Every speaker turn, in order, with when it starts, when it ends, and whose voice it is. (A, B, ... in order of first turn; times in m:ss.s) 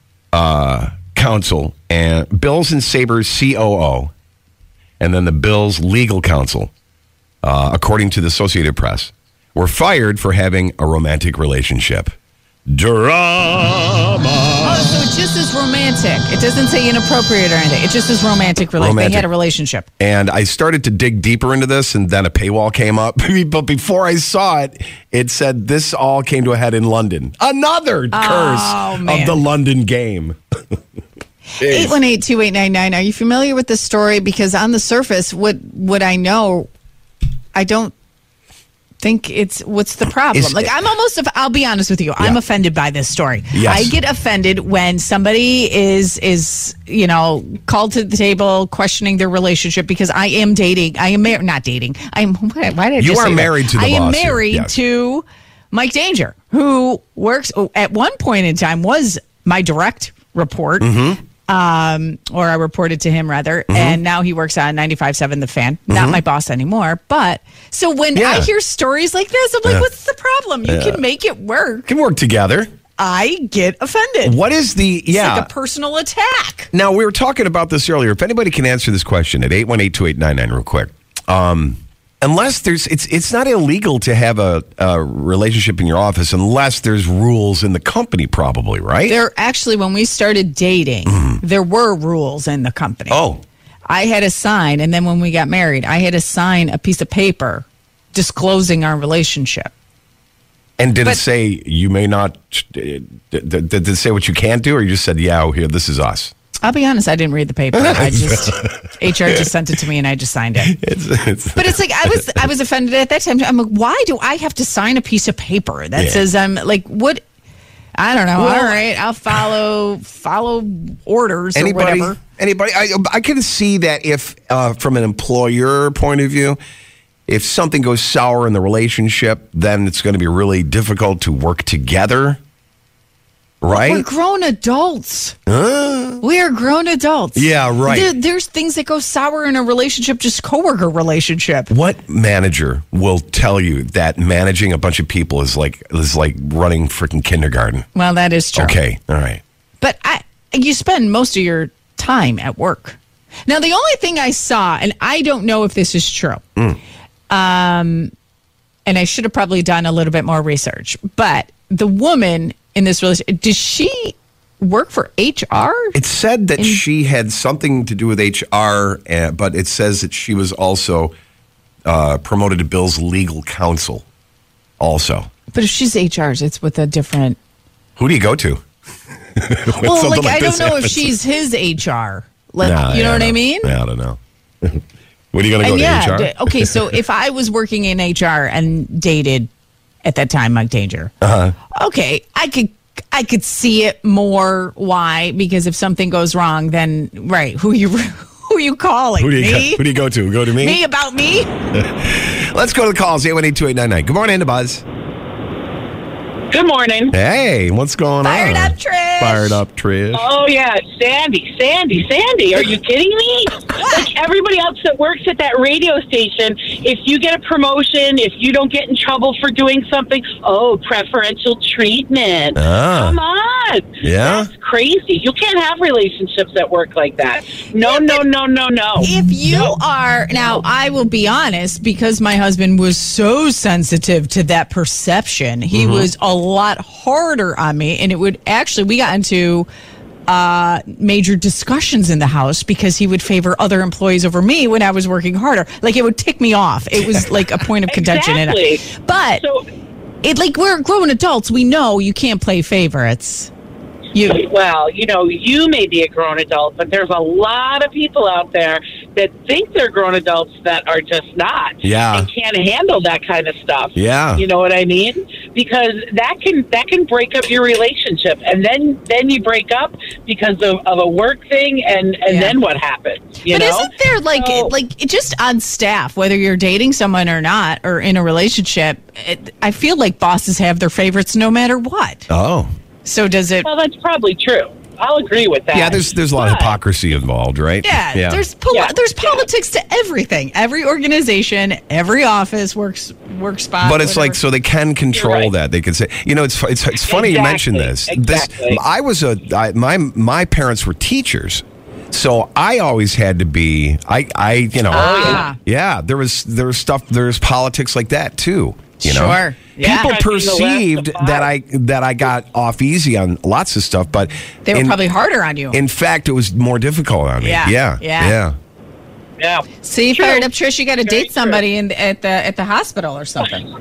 0:00.3-0:04.1 A
0:05.0-0:06.7 A
0:07.4-0:12.1 A
0:12.7-0:15.0 A
0:14.6-0:19.9 B
0:18.8-0:19.3 A
0:20.0-0:30.4 A
0:28.1-0:29.4 B
0:31.6-0:36.7 B
0:31.6-0:32.0 A
0:37.5-0:37.9 B
0:39.0-1:11.9 B
0:40.3-0:40.7 A
0:43.5-0:44.0 A
0:53.0-0:54.8 A
1:00.8-1:01.2 A
1:03.7-1:04.0 A
1:05.9-1:06.2 A
1:08.2-1:08.5 A
1:10.6-1:11.0 A
1:11.9-1:12.7 A
1:13.0-1:14.4 B
1:14.2-1:15.5 A
1:15.1-1:16.7 B
1:16.7-1:29.2 A
1:29.1-1:33.2 B
1:31.1-1:31.4 A
1:33.1-1:33.4 A
1:33.9-1:39.7 B
1:40.8-1:46.3 A
1:46.6-1:50.8 B
1:47.7-1:48.7 A
1:50.6-1:52.2 A
1:51.5-1:57.2 B
1:56.0-1:56.2 A
1:58.0-2:02.2 B
1:58.4-1:58.8 A
2:01.6-2:06.6 A
2:07.3-2:12.4 A
2:13.6-2:14.1 A
2:13.7-2:15.4 B
2:15.5-2:16.2 A
2:16.2-2:21.7 B
2:17.4-2:18.1 A
2:21.7-2:27.9 A
2:27.9-2:28.8 B
2:28.6-2:29.4 A
2:29.8-2:36.4 B
2:37.3-2:38.1 B
2:38.9-2:46.0 B
2:45.9-2:51.1 A
2:46.6-2:46.8 B
2:51.9-2:54.1 A
2:54.8-2:55.3 A
2:55.5-2:57.4 B
2:58.0-2:58.6 A
2:59.4-3:01.1 A
2:59.7-3:03.7 B
3:02.6-3:04.8 A
3:05.3-3:06.9 A
3:05.6-3:09.5 B
3:10.0-3:11.1 B
3:11.2-3:11.6 A
3:11.7-3:19.8 B
3:19.2-3:20.8 A
3:20.5-3:21.5 B
3:21.8-3:24.8 A
3:26.5-3:27.2 C
3:27.1-3:30.3 A
3:28.2-3:29.6 B
3:30.1-3:49.1 C
3:42.6-3:43.2 A
3:44.0-3:44.5 A
3:47.8-3:48.2 B
3:49.0-3:59.7 B
3:55.7-3:56.1 A
4:00.3-4:09.4 B
4:07.9-4:09.6 C
4:10.2-4:13.5 B
4:14.1-4:14.4 B
4:14.2-4:34.7 C
4:21.8-4:22.3 A
4:24.0-4:24.4 A
4:32.3-4:32.6 B
4:33.5-4:42.3 B
4:42.3-4:42.7 A
4:43.0-4:43.7 B
4:43.6-4:46.8 C
4:45.7-4:48.4 A
4:47.8-4:54.4 B
4:48.7-4:49.4 C
4:53.8-5:15.0 A
4:55.1-4:55.5 C
4:57.0-4:58.8 C
5:04.9-5:05.6 B
5:04.9-5:05.5 C
5:09.0-5:10.1 B
5:09.8-5:11.5 C
5:14.6-5:15.8 B
5:15.7-5:18.6 A
5:17.4-5:18.4 B
5:19.4-5:20.5 C
5:19.8-5:23.7 B
5:21.0-5:21.6 C